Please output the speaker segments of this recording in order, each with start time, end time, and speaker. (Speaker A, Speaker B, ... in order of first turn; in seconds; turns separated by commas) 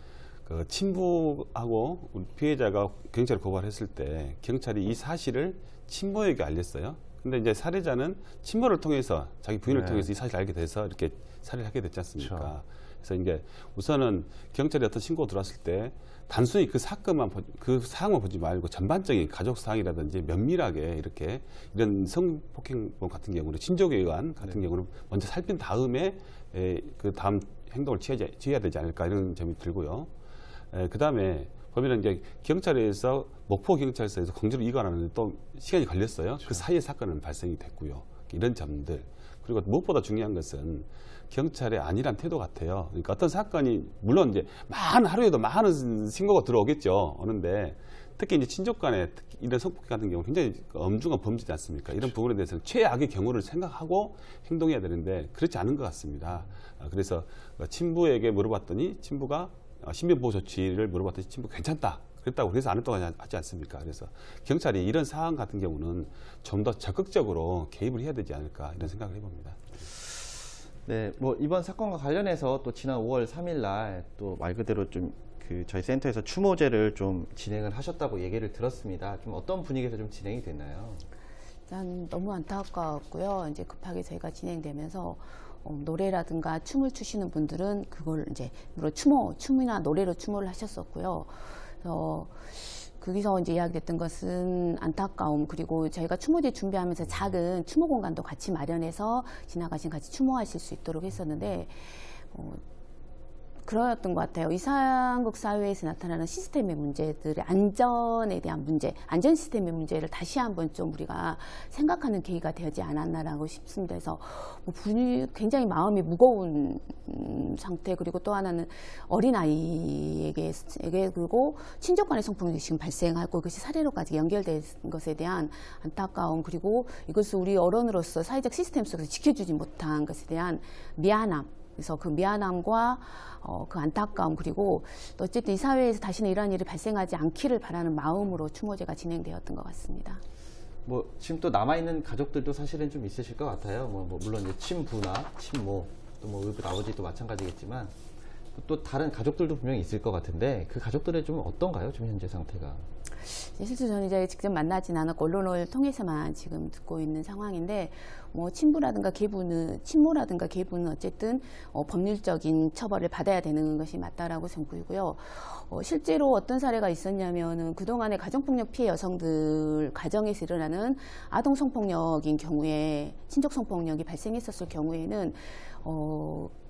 Speaker A: 0.5-30.1, Speaker B: 9.7-10.1, Speaker B: 12.2-12.5, Speaker A: 30.7-69.6, Speaker B: 70.9-81.1, Speaker C: 81.7-91.3, Speaker C: 91.8-102.6, Speaker C: 103.6-140.2, Speaker B: 140.9-147.9, Speaker B: 148.6-152.9, Speaker C: 153.2-176.5